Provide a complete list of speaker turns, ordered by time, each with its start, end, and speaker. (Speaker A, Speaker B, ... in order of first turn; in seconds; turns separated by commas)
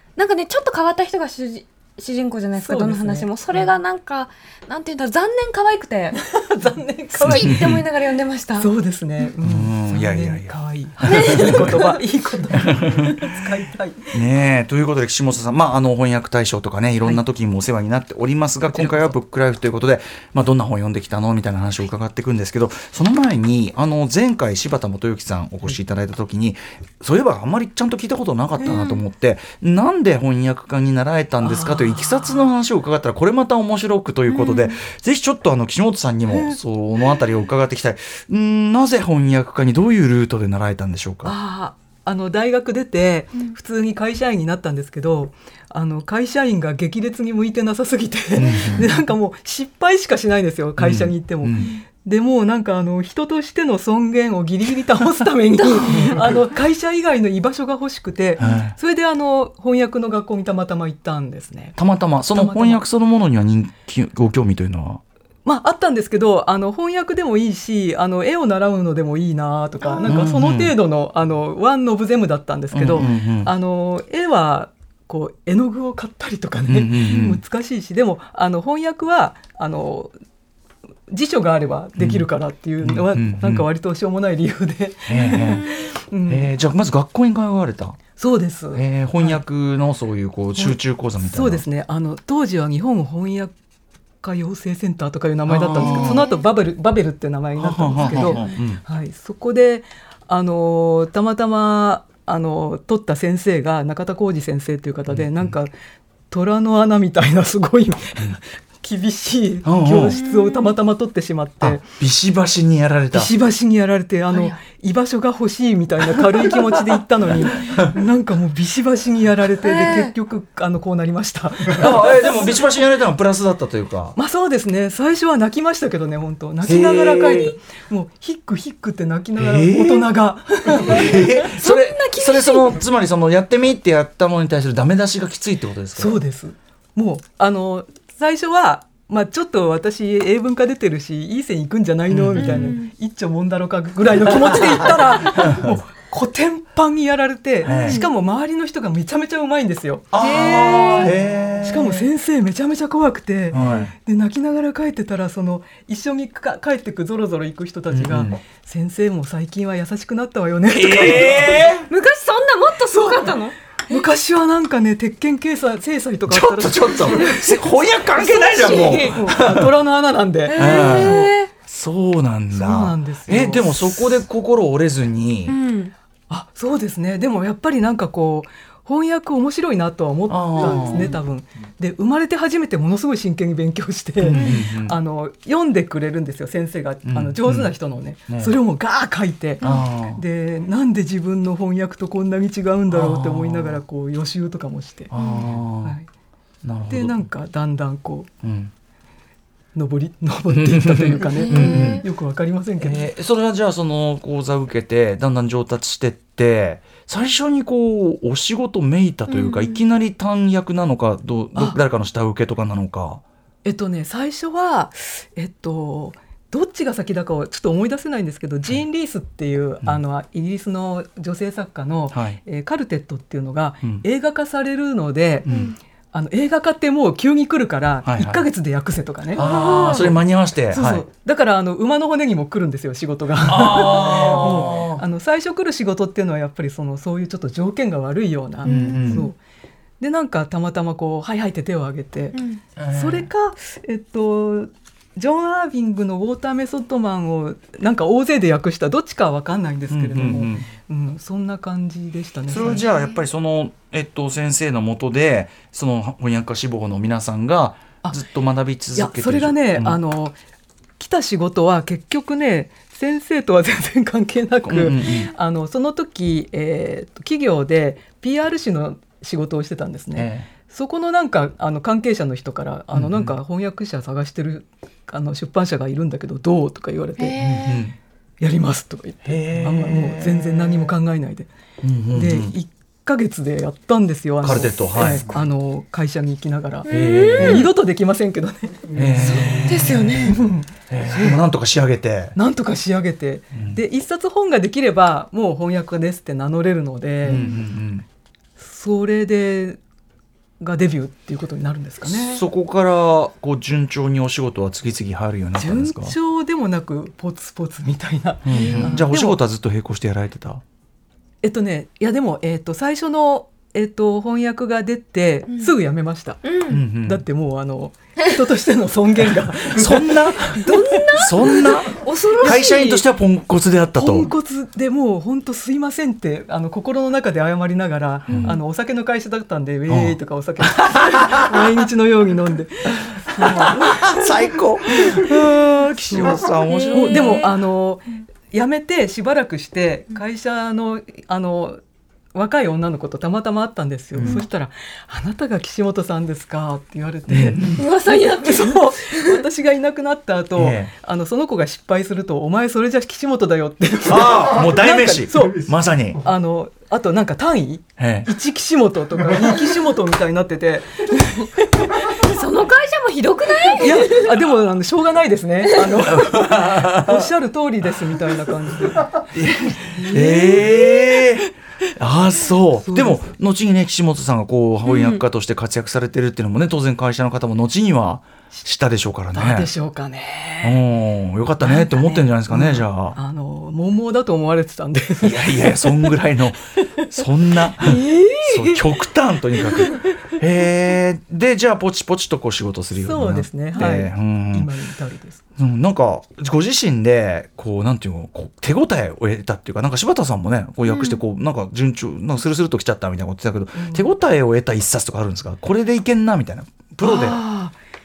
Speaker A: 0.2-6.2, Speaker B: 2.6-3.7, Speaker B: 6.2-7.7, Speaker A: 7.1-8.7, Speaker C: 7.2-7.8, Speaker B: 8.6-14.1, Speaker C: 9.4-11.8, Speaker A: 11.1-11.9, Speaker C: 12.6-13.3, Speaker C: 14.1-41.4, Speaker B: 18.7-19.2, Speaker B: 31.4-32.5, Speaker B: 41.2-62.8, Speaker C: 48.4-48.9, Speaker C: 50.8-51.8, Speaker C: 55.9-56.4, Speaker C: 58.4-58.8, Speaker C: 61.8-65.0, Speaker B: 65.5-80.1, Speaker C: 70.0-70.8, Speaker C: 72.7-73.5, Speaker C: 76.7-77.4, Speaker B: 81.1-86.5, Speaker C: 82.0-82.3, Speaker C: 82.8-83.7, Speaker C: 85.1-88.0, Speaker A: 85.5-85.8, Speaker B: 88.2-89.4, Speaker C: 88.7-91.7, Speaker B: 90.6-93.5, Speaker B: 94.2-105.7, Speaker C: 95.5-96.3, Speaker A: 95.8-96.4, Speaker C: 97.6-98.8, Speaker A: 98.0-98.5, Speaker C: 105.1-105.5, Speaker B: 106.3-111.8, Speaker C: 109.6-110.2, Speaker A: 110.2-110.7, Speaker C: 111.6-113.3, Speaker B: 113.1-122.5, Speaker A: 114.3-114.6, Speaker A: 119.6-120.2, Speaker C: 121.7-124.2, Speaker B: 124.2-131.5, Speaker C: 126.6-127.6, Speaker C: 129.4-130.1, Speaker C: 130.8-136.2, Speaker A: 131.4-132.8, Speaker B: 136.0-161.7, Speaker C: 142.1-142.8, Speaker A: 142.4-142.9, Speaker C: 144.2-145.8, Speaker C: 147.6-148.0, Speaker A: 147.7-148.1, Speaker C: 150.1-152.1, Speaker C: 153.5-153.9, Speaker A: 153.6-153.8, Speaker C: 157.9-158.4, Speaker C: 160.7-161.9, Speaker A: 161.9-164.1, Speaker B: 163.0-163.3, Speaker B: 163.9-167.3, Speaker C: 166.3-169.7, Speaker A: 167.1-167.3, Speaker A: 168.2-169.2, Speaker B: 169.1-171.3, Speaker A: 170.5-171.5, Speaker C: 170.6-175.6, Speaker B: 172.5-173.8, Speaker A: 175.5-175.9, Speaker B: 176.3-195.1, Speaker C: 180.3-181.2, Speaker A: 180.6-181.0, Speaker C: 184.2-185.0, Speaker C: 187.1-187.8, Speaker C: 188.3-188.6, Speaker C: 189.6-190.2, Speaker C: 192.9-193.8, Speaker C: 195.1-196.0, Speaker A: 195.1-195.4, Speaker B: 195.8-196.1, Speaker C: 196.6-197.3, Speaker B: 196.9-198.3, Speaker C: 198.4-198.7, Speaker B: 199.8-203.1, Speaker C: 200.5-202.1, Speaker A: 201.2-202.1, Speaker C: 202.8-213.2, Speaker A: 209.3-209.8, Speaker B: 211.6-211.8, Speaker B: 213.6-225.5, Speaker C: 222.1-222.4, Speaker C: 225.4-225.8, Speaker A: 225.5-225.8, Speaker B: 226.1-239.4, Speaker C: 228.0-228.4, Speaker C: 229.3-231.1, Speaker A: 229.4-230.1, Speaker C: 233.4-235.0, Speaker C: 238.6-239.3, Speaker A: 238.6-239.3, Speaker B: 240.0-252.9, Speaker A: 242.3-242.6, Speaker C: 242.8-243.3, Speaker C: 249.9-250.7, Speaker C: 252.5-260.0, Speaker B: 258.9-260.4, Speaker B: 261.0-277.4, Speaker C: 264.6-265.3, Speaker C: 270.1-270.5, Speaker C: 272.9-273.4, Speaker A: 277.2-277.9, Speaker C: 277.4-278.0, Speaker B: 278.4-281.5, Speaker C: 279.2-280.9, Speaker C: 281.8-282.6, Speaker B: 282.1-291.4, Speaker C: 284.4-285.4, Speaker A: 286.9-287.7, Speaker C: 286.9-287.7, Speaker C: 288.9-290.4, Speaker A: 289.2-290.4, Speaker C: 290.9-292.4, Speaker B: 292.4-297.4, Speaker C: 293.5-293.8, Speaker C: 297.2-298.1, Speaker A: 297.3-297.6, Speaker B: 298.6-299.8, Speaker B: 300.6-302.4, Speaker C: 302.0-306.2, Speaker B: 305.6-309.4, Speaker C: 308.4-310.6, Speaker A: 308.5-309.0, Speaker B: 311.4-316.4, Speaker A: 315.5-315.8, Speaker A: 316.4-316.9, Speaker C: 316.7-317.2, Speaker B: 317.0-320.8, Speaker C: 319.7-324.3, Speaker A: 320.6-323.0, Speaker B: 323.9-334.3, Speaker C: 328.3-328.6, Speaker C: 329.9-331.7, Speaker C: 333.4-337.5, Speaker B: 335.0-335.3, Speaker B: 336.1-341.8, Speaker A: 336.7-337.5, Speaker B: 342.3-355.7, Speaker C: 344.1-344.4, Speaker C: 347.3-347.8, Speaker A: 347.8-349.4, Speaker C: 350.6-350.9, Speaker C: 354.1-356.2, Speaker B: 356.2-362.2, Speaker C: 358.0-358.3, Speaker A: 362.2-364.4, Speaker B: 363.8-369.3, Speaker A: 365.6-365.9, Speaker C: 366.0-367.3, Speaker C: 369.2-379.7, Speaker B: 369.9-370.9, Speaker B: 372.8-373.3, Speaker A: 374.9-375.2, Speaker B: 379.3-380.9, Speaker C: 380.6-383.2, Speaker B: 381.6-386.1, Speaker C: 385.2-394.7, Speaker B: 387.0-388.9, Speaker B: 389.5-390.1, Speaker B: 392.9-395.4, Speaker C: 395.6-407.4, Speaker A: 400.9-401.2, Speaker B: 403.7-404.1, Speaker B: 407.0-407.8